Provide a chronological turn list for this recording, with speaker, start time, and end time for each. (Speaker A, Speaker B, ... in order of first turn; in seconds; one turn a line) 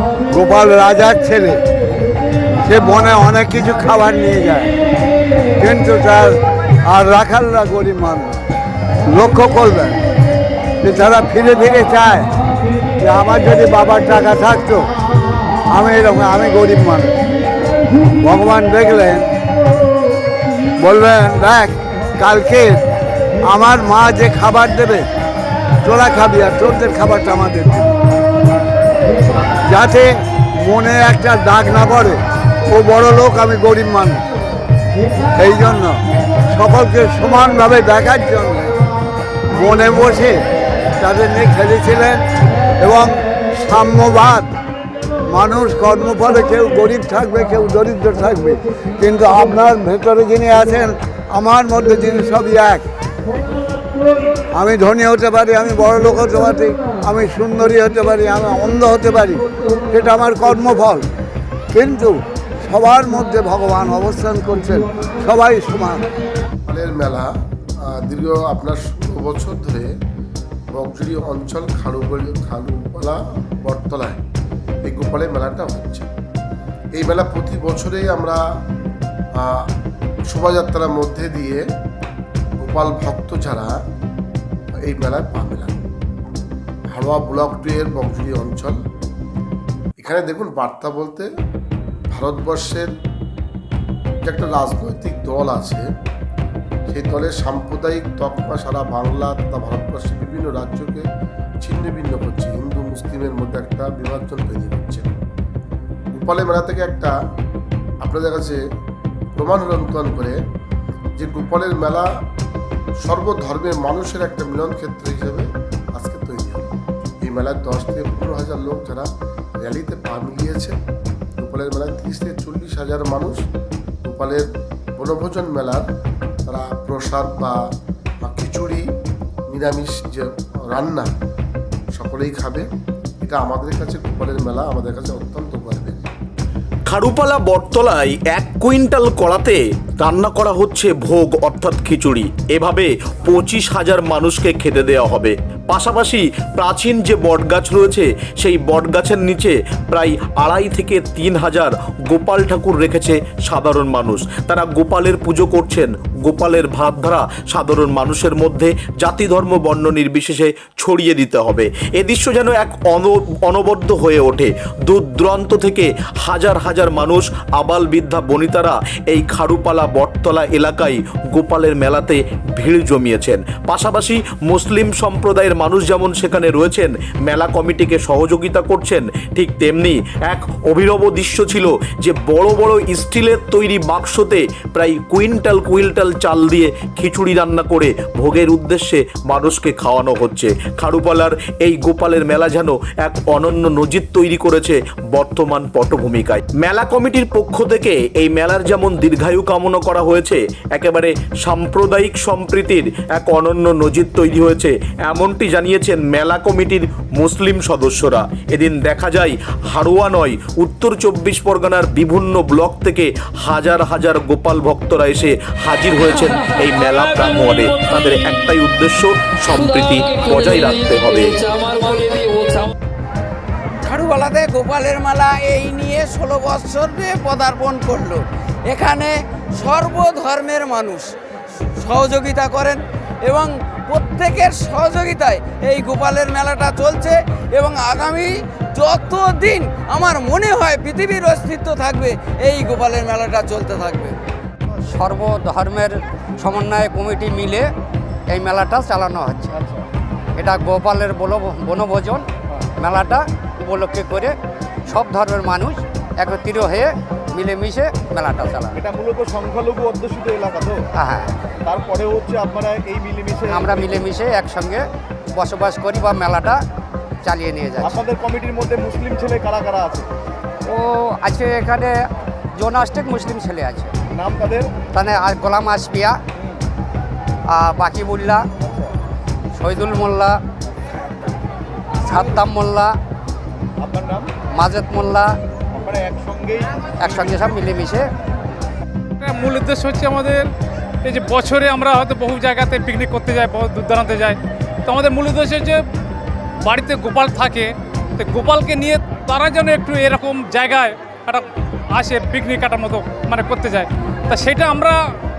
Speaker A: 0.3-1.6
Speaker A: 2.6-4.7
Speaker A: 5.6-6.3
Speaker A: 6.9-8.4
Speaker A: 9.1-10.0
Speaker A: 10.8-12.3
Speaker A: 13.0-14.8
Speaker A: 15.7-17.1
Speaker A: 18.2-19.3
Speaker A: 20.8-22.8
Speaker A: 23.5-25.1
Speaker A: 25.8-27.9
Speaker A: 29.6-30.1
Speaker A: 30.6-34.2
Speaker A: 35.4-36.0
Speaker A: 36.5-38.7
Speaker A: 39.5-40.4
Speaker A: 41.0-42.2
Speaker A: 42.8-44.5
Speaker A: 45.3-52.8
Speaker A: 54.5-61.0
Speaker A: 61.7-66.0
Speaker B: 66.7-69.9
Speaker B: 70.7-74.2
Speaker B: 74.8-76.1
Speaker B: 77.0-78.4
Speaker B: 79.4-79.7
Speaker B: 80.3-81.6
Speaker B: 82.6-83.8
Speaker B: 84.8-85.8
Speaker B: 86.9-88.8
Speaker B: 90.0-91.3
Speaker B: 92.1-92.9
Speaker B: 94.2-95.8
Speaker B: 96.9-101.0
Speaker B: 101.6-105.1
Speaker B: 106.1-107.1
Speaker B: 108.0-108.6
Speaker B: 109.3-110.4
Speaker B: 111.2-112.1
Speaker B: 113.0-119.1
Speaker B: 119.6-120.7
Speaker B: 121.4-123.4
Speaker B: 124.0-124.5
Speaker B: 125.0-125.8
Speaker B: 126.5-127.5
Speaker B: 128.2-128.8
Speaker B: 129.5-131.1
Speaker B: 131.9-132.7
Speaker B: 133.2-136.1
Speaker C: 136.9-221.7
Speaker D: 223.8-231.1
Speaker D: 231.8-244.2
Speaker E: 244.8-247.7
Speaker E: 248.3-249.6
Speaker F: 249.5-249.8
Speaker E: 250.4-252.2
Speaker E: 252.8-254.3
Speaker E: 254.9-258.8
Speaker F: 258.7-260.8
Speaker E: 260.9-261.3
Speaker F: 261.6-264.1
Speaker E: 263.5-264.8
Speaker E: 265.3-266.6
Speaker E: 267.2-268.0
Speaker F: 267.8-270.1
Speaker E: 270.6-271.9
Speaker E: 272.6-273.9
Speaker F: 274.1-274.7
Speaker E: 274.9-276.2
Speaker E: 277.5-278.4
Speaker F: 278.6-278.9
Speaker E: 279.6-280.4
Speaker E: 282.0-282.9
Speaker F: 283.8-284.3
Speaker E: 284.5-285.3
Speaker F: 285.7-287.4
Speaker E: 287.0-288.1
Speaker G: 289.2-290.5
Speaker G: 291.0-295.8
Speaker G: 296.6-305.0